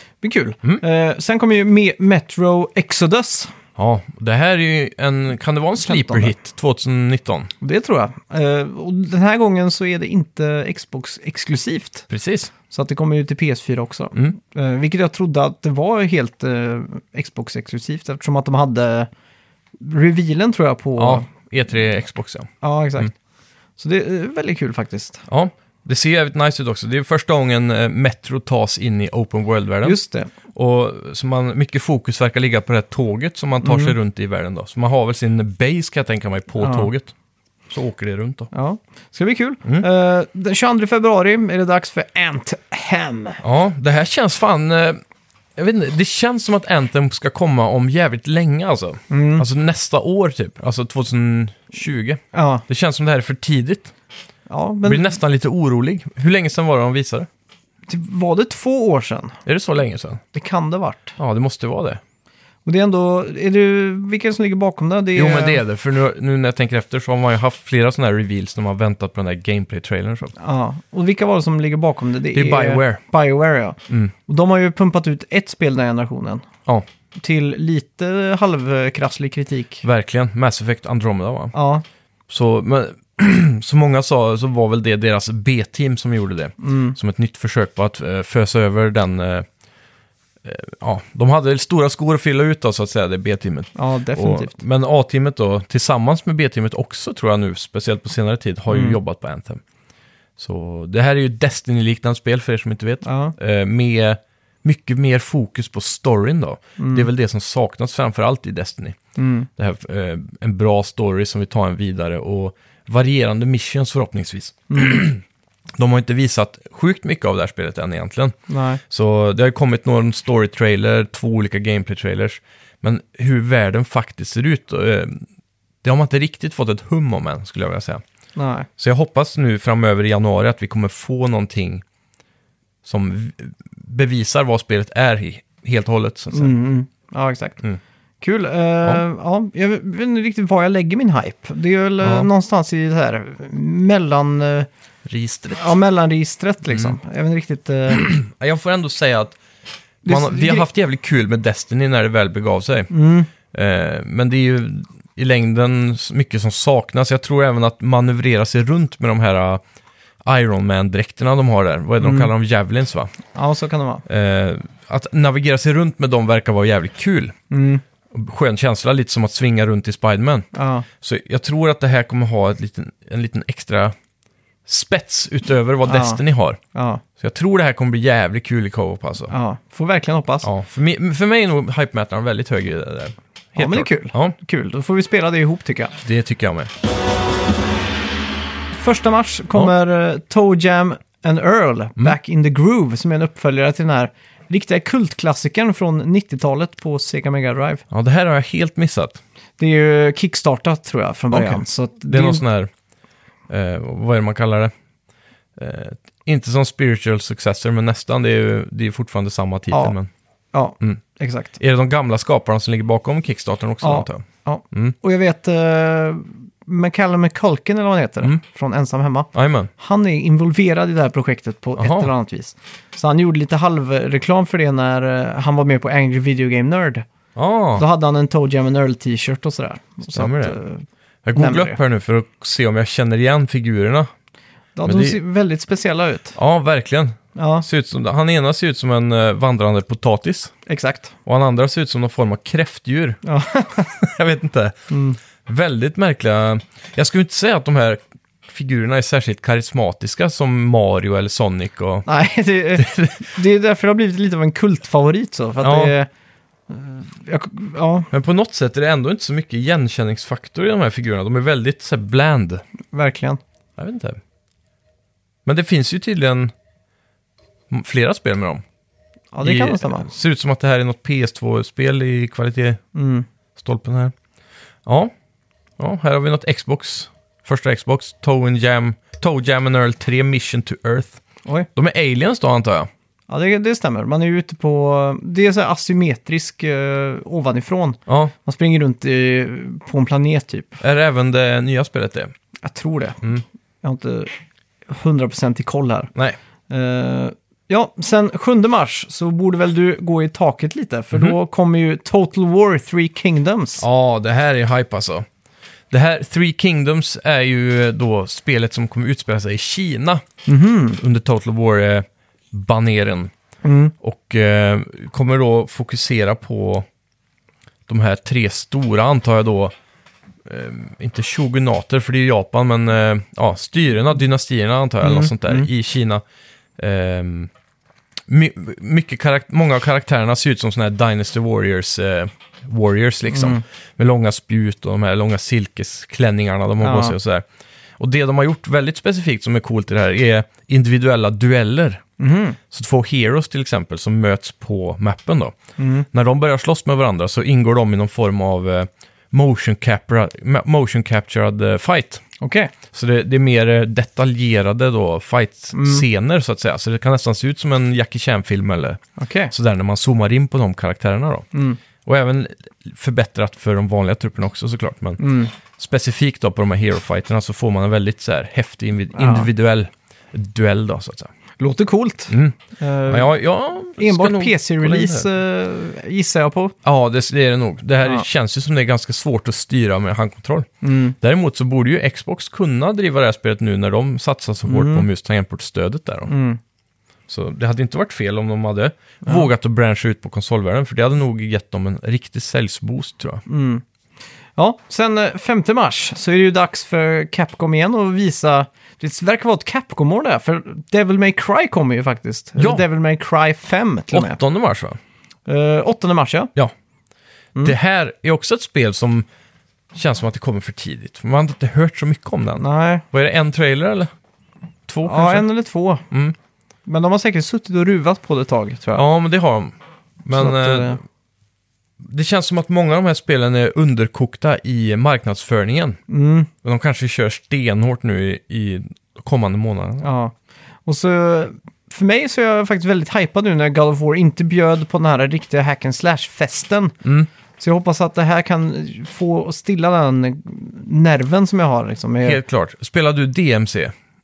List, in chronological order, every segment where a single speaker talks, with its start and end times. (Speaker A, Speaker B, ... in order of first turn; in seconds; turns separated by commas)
Speaker A: 0.2-3.5, Speaker B: 3.8-7.5, Speaker A: 5.8-6.3, Speaker A: 7.6-12.1, Speaker B: 12.1-12.5, Speaker A: 12.7-19.1, Speaker A: 19.8-21.3, Speaker B: 21.0-23.1, Speaker A: 22.6-23.1, Speaker A: 23.8-25.2, Speaker B: 25.3-30.0, Speaker A: 29.8-30.3, Speaker B: 30.5-37.1, Speaker A: 33.6-34.0, Speaker A: 36.6-36.9, Speaker B: 37.7-38.5, Speaker A: 38.5-43.4, Speaker B: 43.4-45.0, Speaker B: 45.6-53.9, Speaker A: 49.1-49.5, Speaker A: 52.3-52.6, Speaker A: 54.5-55.1, Speaker B: 54.9-57.3, Speaker A: 57.9-59.4, Speaker B: 59.5-60.2, Speaker A: 60.3-61.1, Speaker B: 61.2-62.0, Speaker A: 62.6-65.6, Speaker B: 65.2-70.3, Speaker A: 70.4-76.5, Speaker B: 72.3-73.0, Speaker A: 77.2-79.8, Speaker B: 79.8-81.5, Speaker A: 81.5-81.8, Speaker B: 82.3-89.5, Speaker A: 86.6-87.0, Speaker B: 90.4-99.6, Speaker A: 93.8-94.6, Speaker A: 98.7-99.0, Speaker B: 100.4-109.0, Speaker A: 103.0-103.3, Speaker A: 106.8-107.1, Speaker A: 109.2-109.5, Speaker B: 109.6-115.2, Speaker A: 114.7-115.0, Speaker B: 115.8-118.4, Speaker A: 118.5-118.8, Speaker B: 118.9-125.2, Speaker B: 125.8-128.0, Speaker A: 128.4-128.7, Speaker B: 128.8-131.8, Speaker B: 132.8-136.5, Speaker A: 136.3-137.6, Speaker A: 138.2-144.7, Speaker B: 142.0-142.3, Speaker B: 145.1-145.7, Speaker A: 145.5-148.1, Speaker B: 146.7-146.9, Speaker B: 147.9-149.4, Speaker A: 150.1-150.7, Speaker B: 150.1-152.9, Speaker A: 152.9-153.3, Speaker B: 153.4-159.6, Speaker B: 160.2-163.1, Speaker A: 162.0-162.3, Speaker A: 163.3-164.1, Speaker B: 164.1-167.3, Speaker A: 167.5-167.8, Speaker B: 168.1-170.5, Speaker A: 170.5-170.9, Speaker B: 171.0-173.9, Speaker B: 174.7-176.6, Speaker A: 175.8-176.2, Speaker A: 176.7-177.0, Speaker B: 177.2-179.3, Speaker A: 179.3-180.5, Speaker B: 180.4-184.3, Speaker A: 183.6-186.0, Speaker B: 186.0-186.7, Speaker A: 188.7-197.8, Speaker B: 197.9-199.2, Speaker A: 199.6-202.4, Speaker B: 201.3-202.7, Speaker B: 203.5-204.7, Speaker B: 205.6-210.1, Speaker A: 210.5-211.5, Speaker B: 211.6-214.9, Speaker A: 213.8-227.1, Speaker B: 219.3-219.7, Speaker B: 221.8-222.1, Speaker B: 227.4-227.8, Speaker A: 227.8-230.8, Speaker B: 230.1-230.6, Speaker B: 231.2-234.1, Speaker A: 231.3-231.8, Speaker A: 234.8-236.3, Speaker B: 234.8-235.2, Speaker B: 236.3-240.5, Speaker A: 237.4-237.7, Speaker A: 240.7-241.1, Speaker B: 241.3-243.2, Speaker A: 243.2-243.9, Speaker B: 243.8-244.8, Speaker A: 244.9-245.2, Speaker B: 245.5-252.1, Speaker A: 252.1-256.1, Speaker B: 252.8-253.3, Speaker B: 255.6-255.9, Speaker A: 256.7-258.1, Speaker B: 258.1-262.6, Speaker A: 262.9-263.4, Speaker B: 263.8-264.2, Speaker B: 265.5-266.5, Speaker B: 267.7-268.6, Speaker A: 269.3-270.1, Speaker B: 269.4-272.8, Speaker A: 272.9-273.3, Speaker B: 273.6-274.1, Speaker B: 274.9-275.1, Speaker B: 275.8-281.2, Speaker B: 281.8-282.9, Speaker A: 283.3-290.8, Speaker B: 288.1-288.3, Speaker B: 290.8-292.3, Speaker A: 292.6-293.2, Speaker A: 293.8-294.3, Speaker A: 294.9-296.1, Speaker A: 296.7-303.9, Speaker B: 303.8-305.3, Speaker B: 305.9-310.2, Speaker A: 310.5-311.0, Speaker B: 311.0-313.3, Speaker A: 313.6-313.9, Speaker B: 314.0-316.9, Speaker B: 317.9-319.7, Speaker B: 320.4-326.2, Speaker A: 325.0-325.7, Speaker B: 326.8-327.5, Speaker B: 328.3-337.4, Speaker A: 333.3-333.6, Speaker A: 336.8-337.2, Speaker B: 338.0-342.0, Speaker A: 342.2-342.6, Speaker B: 342.7-345.6, Speaker A: 345.8-346.1, Speaker B: 346.1-352.2, Speaker A: 352.4-352.7, Speaker B: 352.9-361.5, Speaker A: 355.7-356.1, Speaker A: 359.2-359.5, Speaker A: 361.5-361.8, Speaker B: 362.1-371.3, Speaker A: 365.2-365.5, Speaker A: 369.1-369.5, Speaker A: 371.6-373.3, Speaker B: 372.3-375.3, Speaker A: 374.0-376.8, Speaker B: 376.8-386.3, Speaker A: 380.8-381.1, Speaker A: 384.7-385.1, Speaker A: 386.3-386.6, Speaker B: 387.3-393.4, Speaker A: 393.5-393.8, Speaker A: 394.6-404.4, Speaker B: 402.6-402.8, Speaker B: 404.1-405.0, Speaker A: 405.5-406.5, Speaker B: 407.6-409.3, Speaker B: 409.9-414.1, Speaker A: 412.6-413.1, Speaker B: 414.9-415.5, Speaker A: 415.1-416.1, Speaker B: 416.1-416.4, Speaker A: 416.9-419.1, Speaker B: 418.9-419.7, Speaker B: 420.2-421.0, Speaker A: 420.3-421.0, Speaker B: 422.0-426.0, Speaker A: 426.1-426.5, Speaker B: 426.6-430.1, Speaker A: 430.0-430.4, Speaker A: 430.9-436.9, Speaker B: 437.0-437.3, Speaker A: 437.6-442.4, Speaker B: 442.2-443.9